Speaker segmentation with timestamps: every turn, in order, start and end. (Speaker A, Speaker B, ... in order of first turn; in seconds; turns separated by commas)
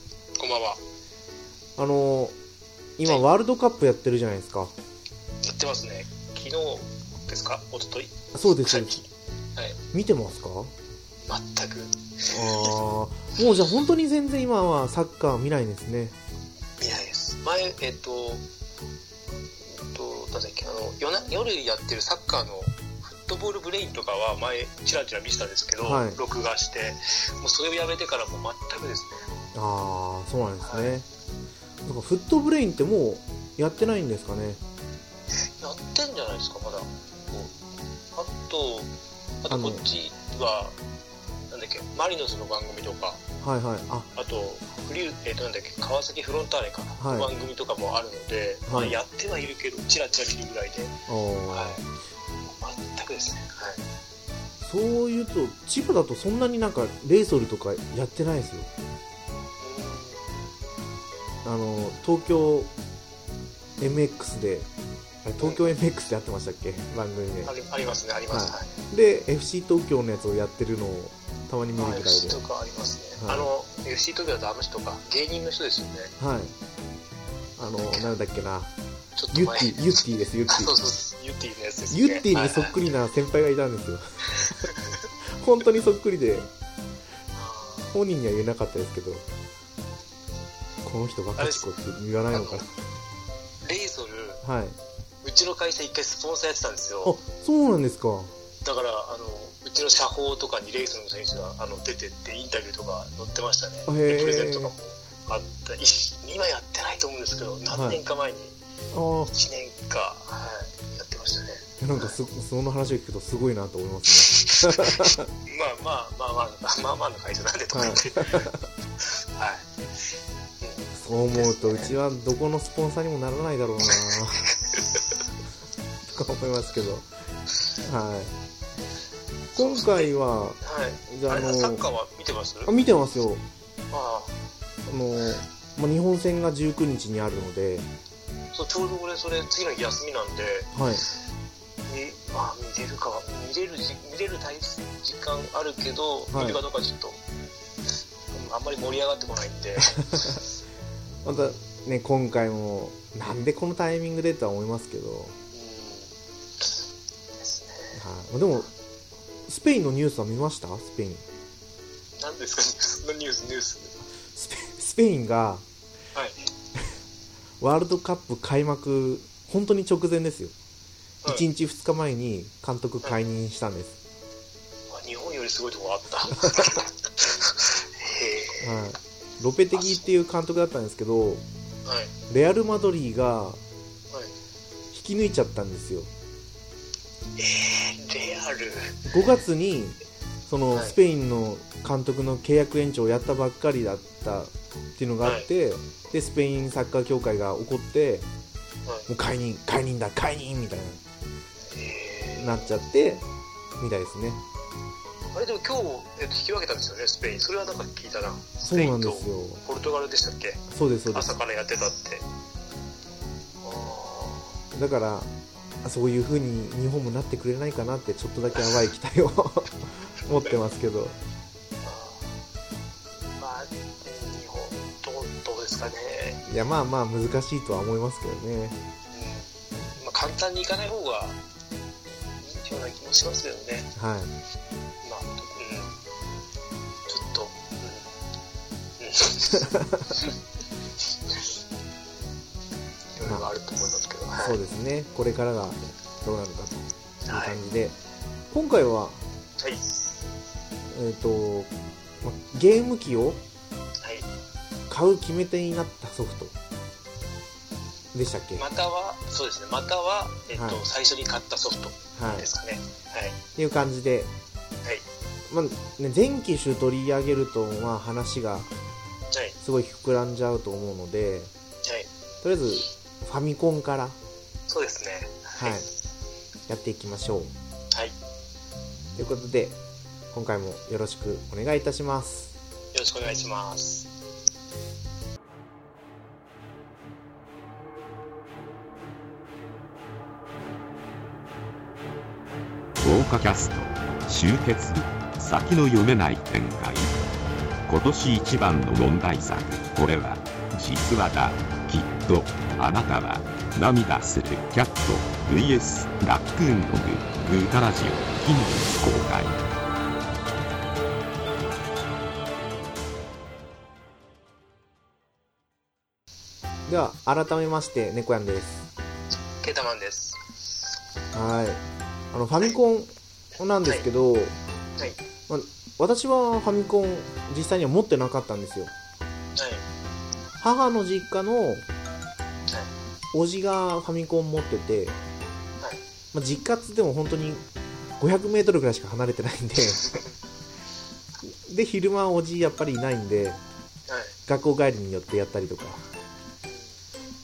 Speaker A: 0.4-0.8, Speaker B: 1.8-2.4, Speaker B: 3.0-4.7, Speaker A: 5.4-9.0, Speaker B: 8.3-9.0, Speaker B: 9.9-10.7, Speaker A: 11.2-12.8, Speaker B: 12.3-16.2, Speaker A: 16.8-18.4, Speaker A: 19.6-29.2, Speaker B: 25.8-26.2, Speaker B: 29.5-31.1, Speaker A: 30.6-30.9, Speaker B: 31.8-34.6, Speaker A: 35.4-37.6, Speaker A: 38.1-38.9, Speaker A: 39.4-40.8, Speaker B: 39.5-39.8, Speaker A: 41.5-43.2, Speaker B: 43.4-44.1, Speaker A: 44.1-50.9, Speaker B: 47.0-47.3, Speaker B: 48.7-49.0, Speaker B: 51.1-51.8, Speaker A: 51.5-51.8, Speaker A: 52.4-53.8, Speaker B: 54.6-58.7, Speaker A: 59.6-60.3, Speaker B: 61.4-62.7, Speaker B: 63.8-64.7, Speaker B: 65.2-67.5, Speaker A: 65.4-65.7, Speaker A: 67.4-68.7, Speaker B: 68.3-72.4, Speaker A: 71.8-76.1, Speaker B: 73.2-73.5, Speaker B: 76.2-76.5, Speaker B: 77.6-78.7, Speaker A: 79.2-80.0, Speaker B: 79.3-80.8, Speaker A: 80.5-82.8, Speaker B: 81.9-84.7, Speaker A: 84.3-85.1, Speaker B: 85.2-86.5, Speaker A: 87.3-87.9, Speaker B: 87.9-89.2, Speaker B: 90.8-92.7, Speaker A: 91.4-91.7, Speaker A: 92.3-92.7, Speaker A: 93.6-94.4, Speaker B: 94.4-94.8, Speaker A: 95.2-97.2, Speaker B: 97.0-98.3, Speaker A: 98.6-108.6, Speaker B: 103.9-104.7, Speaker B: 107.7-108.0, Speaker B: 108.9-109.3, Speaker A: 109.3-112.1, Speaker B: 111.8-115.3, Speaker A: 114.1-118.5, Speaker B: 117.7-118.7, Speaker A: 119.1-119.7, Speaker A: 120.6-121.9, Speaker B: 120.9-124.5, Speaker A: 123.9-125.0, Speaker B: 126.1-127.1, Speaker B: 127.8-128.3, Speaker B: 129.5-131.8, Speaker A: 129.5-132.7, Speaker B: 132.6-133.4, Speaker A: 133.9-134.3, Speaker B: 134.9-137.9, Speaker A: 138.5-140.7, Speaker B: 140.7-141.0, Speaker A: 141.9-147.2, Speaker B: 146.3-146.6, Speaker A: 148.3-150.4, Speaker B: 150.1-150.4, Speaker B: 151.2-155.3, Speaker A: 155.5-156.7, Speaker A: 157.4-158.0, Speaker B: 157.9-158.7, Speaker B: 159.5-161.2, Speaker A: 162.2-163.9, Speaker B: 164.3-165.6, Speaker A: 166.1-166.5, Speaker B: 167.6-170.5, Speaker B: 171.2-174.0, Speaker A: 174.9-178.8, Speaker B: 178.6-181.4, Speaker A: 179.7-180.1, Speaker A: 181.8-182.1, Speaker B: 182.3-183.6, Speaker B: 184.9-186.1, Speaker A: 187.4-189.0, Speaker B: 189.1-198.3, Speaker A: 190.7-191.0, Speaker A: 195.2-195.5, Speaker B: 199.1-201.0, Speaker A: 201.7-202.7, Speaker B: 202.4-203.2, Speaker B: 203.8-204.4, Speaker A: 205.3-212.2, Speaker B: 208.6-209.6, Speaker B: 210.7-211.3, Speaker A: 213.6-214.6, Speaker B: 214.7-215.3, Speaker B: 215.8-221.2, Speaker A: 221.8-222.3, Speaker A: 223.3-226.4, Speaker B: 226.4-228.8, Speaker A: 229.1-231.4, Speaker A: 232.2-233.9, Speaker B: 233.9-234.3, Speaker A: 235.0-235.9, Speaker A: 237.1-238.1, Speaker A: 239.0-240.3, Speaker B: 239.6-240.2, Speaker A: 243.2-244.6, Speaker B: 243.2-243.5, Speaker B: 244.3-248.0, Speaker A: 247.2-247.6, Speaker B: 248.5-249.2, Speaker A: 249.6-250.2, Speaker B: 250.9-251.7, Speaker B: 252.2-253.4, Speaker B: 254.9-256.5, Speaker B: 258.1-258.6, Speaker A: 258.6-263.4, Speaker B: 260.5-260.8, Speaker B: 262.1-262.5, Speaker B: 263.6-264.3, Speaker B: 265.5-268.7, Speaker A: 269.3-269.6, Speaker B: 269.6-271.5, Speaker A: 271.8-272.1, Speaker B: 272.4-274.2, Speaker A: 274.7-275.8, Speaker B: 275.6-275.9, Speaker B: 276.7-277.5, Speaker B: 279.1-279.8, Speaker B: 280.3-282.5, Speaker A: 282.9-284.1, Speaker C: 293.0-297.1, Speaker C: 297.9-309.6, Speaker B: 316.9-318.9, Speaker A: 319.6-320.4, Speaker B: 321.3-324.6, Speaker B: 325.5-328.9, Speaker A: 329.5-329.8, Speaker B: 330.6-331.9, Speaker B: 333.3-335.2, Speaker B: 336.3-337.6, Speaker B: 338.2-340.2, Speaker B: 341.4-343.6, Speaker A: 344.1-344.4, Speaker B: 344.5-346.0, Speaker A: 346.7-346.9